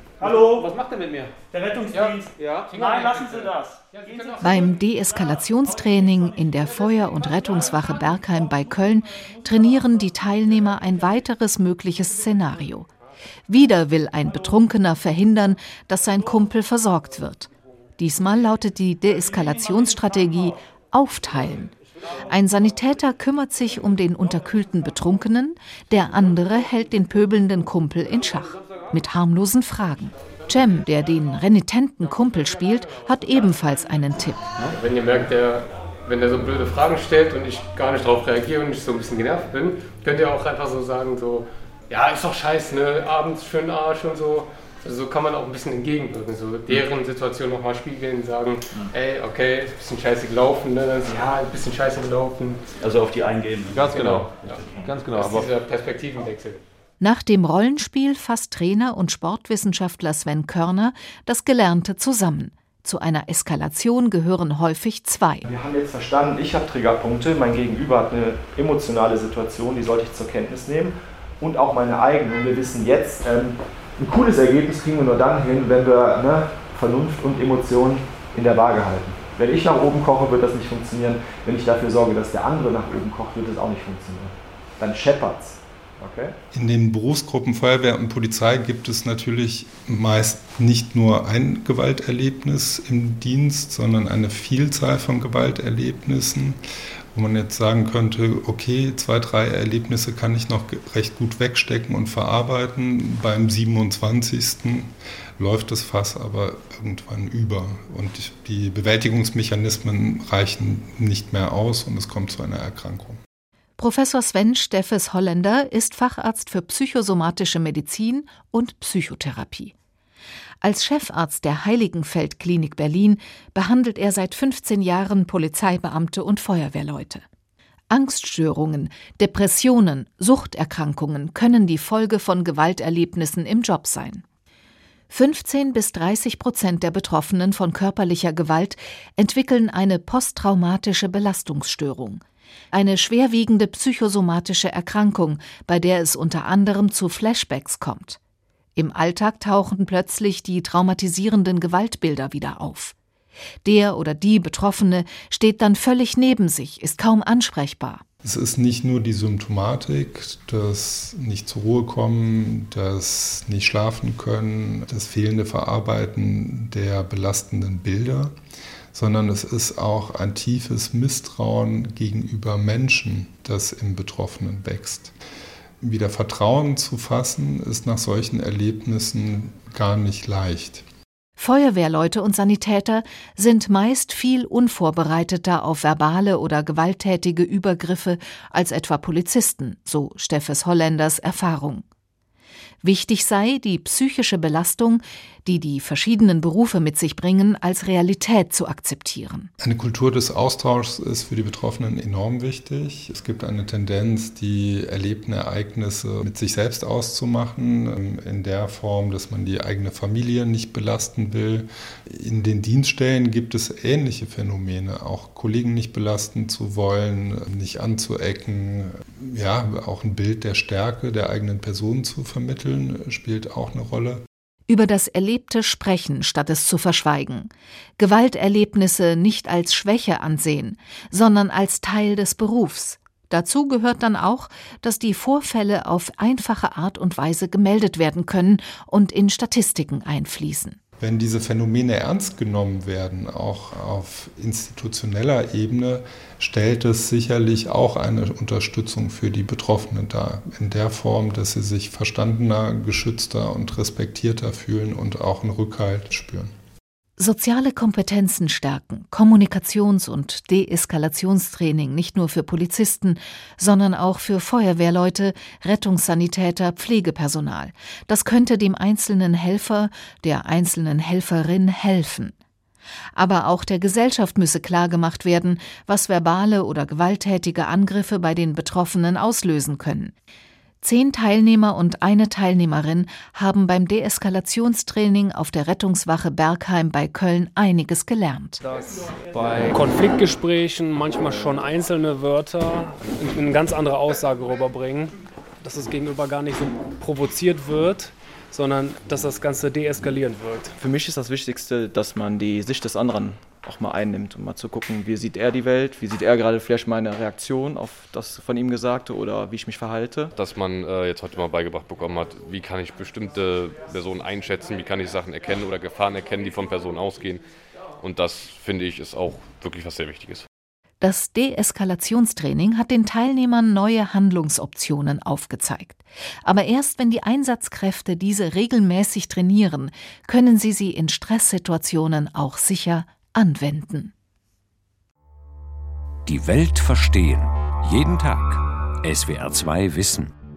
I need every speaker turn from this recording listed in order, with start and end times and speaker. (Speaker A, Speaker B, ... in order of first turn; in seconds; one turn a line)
Speaker A: 0.2-0.7
Speaker B: 0.2-1.3
Speaker A: 1.5-4.7
Speaker B: 1.9-4.4
Speaker C: 4.4-12.9
Speaker C: 13.5-21.7
Speaker C: 22.3-34.5
Speaker B: 34.6-52.7
Speaker A: 52.8-55.1
Speaker D: 53.7-54.2
Speaker B: 53.9-56.6
Speaker D: 54.8-55.5
Speaker C: 57.0-65.4
Speaker E: 65.4-86.3
Speaker F: 86.5-96.6
Speaker F: 97.1-113.2
Speaker C: 113.8-119.7
Speaker C: 120.6-127.2
Speaker C: 127.9-134.2
Speaker C: 135.1-148.2
Speaker C: 148.8-152.9
Speaker C: 153.6-158.0
Speaker F: 158.2-168.3
Speaker F: 168.9-175.1
Speaker F: 175.8-180.8
Speaker C: 181.4-191.8
Speaker C: 192.8-199.5
Speaker F: 199.6-224.2
Speaker C: 224.7-240.8
Speaker F: 241.0-256.5
Speaker C: 257.2-272.3
Speaker C: 273.1-280.1
Speaker C: 280.8-288.6
Speaker G: 288.6-300.8
Speaker H: 300.8-310.3
Speaker D: 310.3-317.4
Speaker D: 318.0-320.4
Speaker C: 321.0-334.1
Speaker I: 336.3-340.3